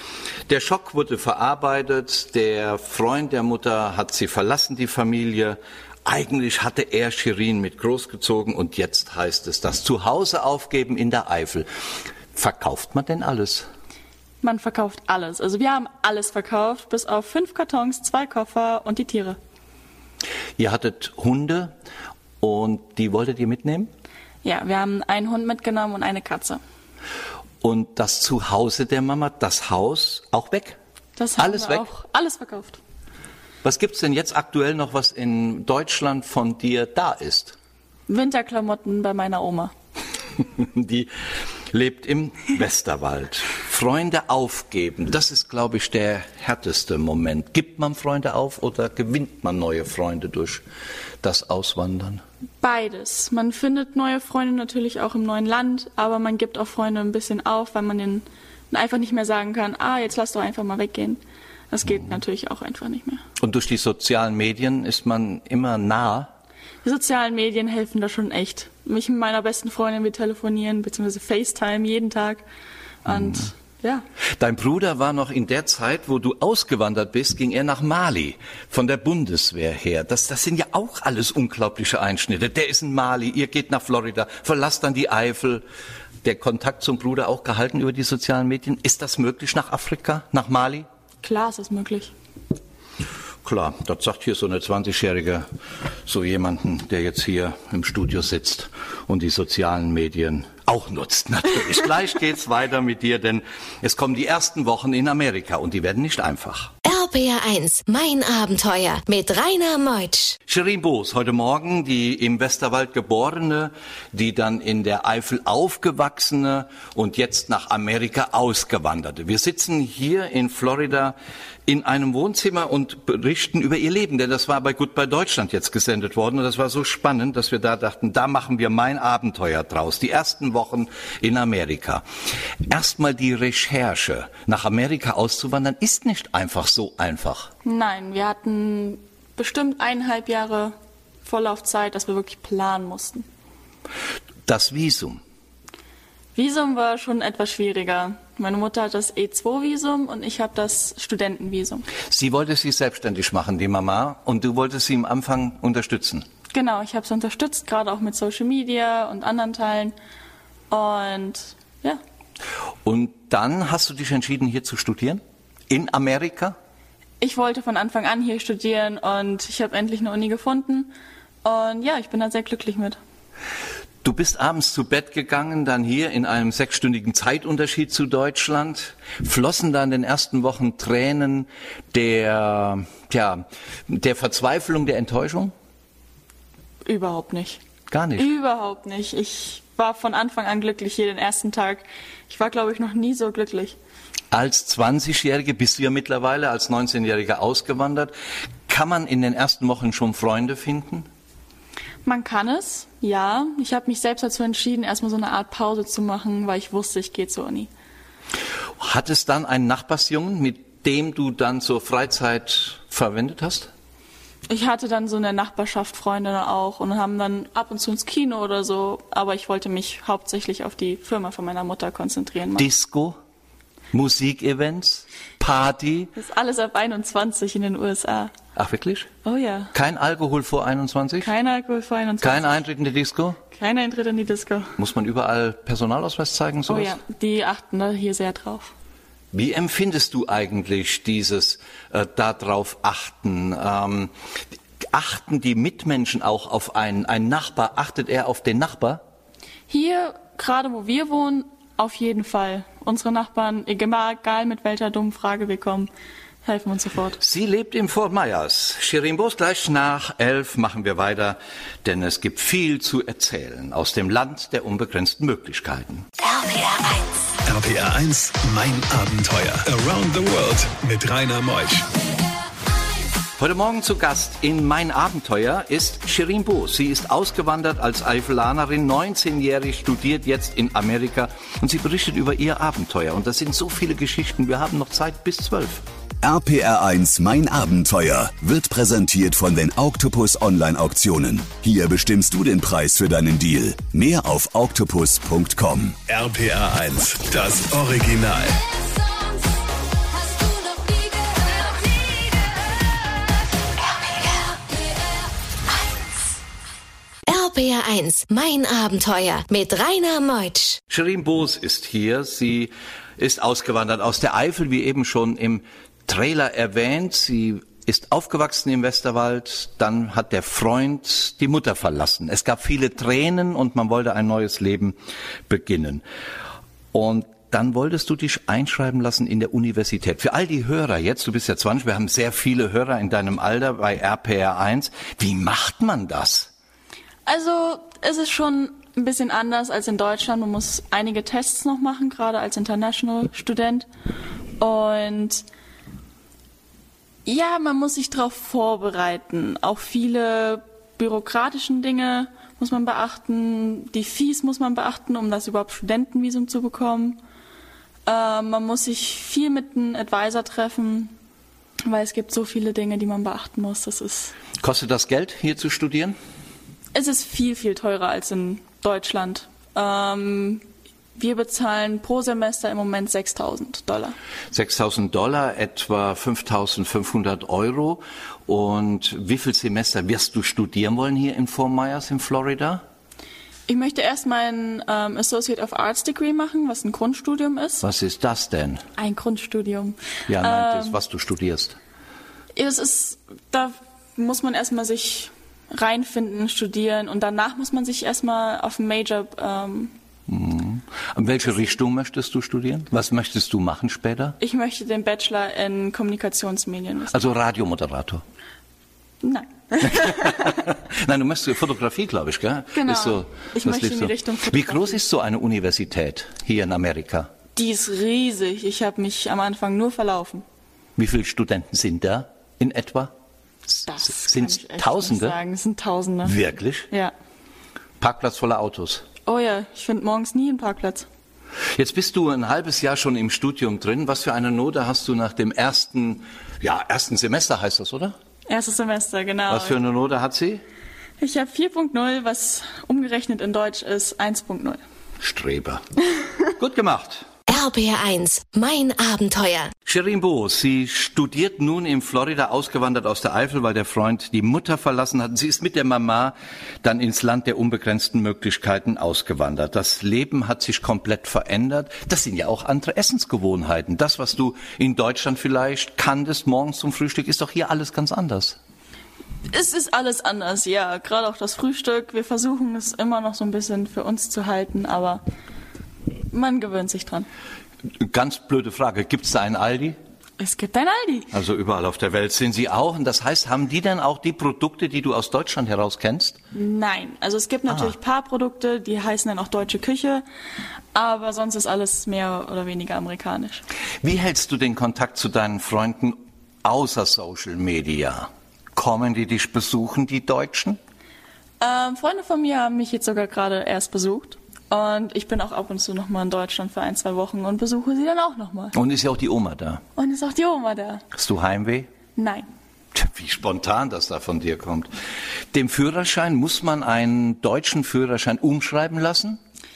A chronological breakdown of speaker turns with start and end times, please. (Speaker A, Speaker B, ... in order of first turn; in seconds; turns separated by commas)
Speaker A: 0.5-11.7, Speaker A: 12.3-13.7, Speaker B: 14.4-19.4, Speaker A: 20.6-21.7, Speaker A: 22.4-23.9, Speaker B: 24.4-26.6, Speaker A: 27.6-30.8, Speaker B: 31.2-32.8, Speaker A: 31.4-31.9, Speaker A: 33.6-37.5, Speaker B: 38.1-39.7, Speaker A: 40.4-41.1, Speaker A: 41.7-50.6, Speaker A: 51.2-52.2, Speaker B: 52.6-61.2, Speaker B: 61.7-63.2, Speaker A: 63.4-66.3, Speaker B: 66.8-72.4, Speaker B: 73.0-74.0, Speaker A: 74.4-85.6, Speaker A: 86.2-90.8, Speaker B: 91.2-92.1, Speaker A: 93.4-95.5, Speaker A: 96.0-106.7, Speaker C: 106.8-110.3, Speaker A: 110.5-121.2, Speaker A: 121.7-132.0, Speaker A: 132.7-137.5, Speaker B: 137.6-143.2, Speaker A: 144.5-145.2, Speaker B: 146.3-151.8, Speaker A: 152.1-156.2, Speaker B: 156.5-159.9, Speaker B: 160.7-162.0, Speaker A: 162.8-166.6, Speaker B: 167.2-170.9, Speaker B: 171.4-173.0, Speaker A: 174.0-185.5, Speaker B: 186.8-187.6, Speaker A: 187.9-188.3, Speaker B: 188.2-193.8, Speaker A: 194.3-198.1, Speaker A: 198.7-201.1, Speaker B: 202.0-207.7, Speaker A: 208.8-213.7, Speaker B: 214.5-222.7, Speaker A: 222.6-223.2, Speaker A: 223.9-226.1, Speaker B: 226.2-228.3, Speaker A: 228.6-229.1, Speaker B: 229.2-229.7, Speaker A: 229.7-231.3, Speaker B: 231.2-232.6, Speaker A: 232.2-233.4, Speaker B: 233.5-234.8, Speaker A: 234.8-237.0, Speaker B: 236.7-238.7, Speaker A: 239.3-244.1, Speaker A: 244.9-249.0, Speaker B: 249.7-255.9, Speaker B: 256.4-257.2, Speaker A: 257.2-266.1, Speaker D: 267.4-271.9, Speaker A: 273.4-285.8, Speaker E: 286.2-296.0, Speaker D: 296.1-298.6, Speaker C: 307.3-310.8, Speaker A: 310.9-325.0, Speaker A: 325.5-326.0, Speaker A: 326.9-336.5, Speaker B: 337.2-343.9, Speaker B: 344.6-345.4, Speaker B: 347.2-357.2, Speaker B: 358.1-361.1, Speaker B: 361.8-364.3, Speaker A: 364.6-366.1, Speaker B: 366.9-370.6, Speaker B: 371.1-374.1, Speaker A: 374.5-382.8, Speaker B: 383.7-387.8, Speaker A: 387.8-388.8, Speaker B: 389.0-390.9, Speaker A: 390.3-391.8, Speaker B: 392.5-399.9, Speaker A: 400.3-404.4, Speaker B: 404.4-407.2, Speaker A: 407.1-408.2, Speaker B: 409.2-410.4, Speaker A: 409.8-417.3, Speaker B: 412.7-415.0, Speaker B: 417.5-420.4, Speaker A: 421.0-423.1, Speaker B: 423.9-426.4, Speaker A: 424.0-425.4, Speaker A: 426.2-426.9, Speaker A: 428.0-429.0, Speaker B: 429.2-431.1, Speaker A: 431.8-438.1, Speaker B: 438.5-439.8, Speaker A: 439.5-440.6, Speaker B: 441.2-444.8, Speaker A: 445.2-445.8, Speaker A: 446.6-447.3, Speaker C: 447.5-449.7, Speaker A: 449.9-468.6, Speaker B: 469.5-475.2, Speaker B: 476.3-477.3, Speaker A: 478.0-480.0, Speaker B: 480.4-481.3, Speaker A: 481.3-486.4, Speaker B: 486.5-490.2, Speaker A: 487.7-487.9, Speaker B: 490.9-493.6, Speaker A: 494.0-500.8, Speaker B: 501.6-508.7, Speaker A: 508.7-509.8, Speaker B: 509.9-511.0, Speaker A: 511.1-511.9, Speaker B: 512.1-512.5, Speaker A: 513.0-514.9, Speaker A: 515.5-519.4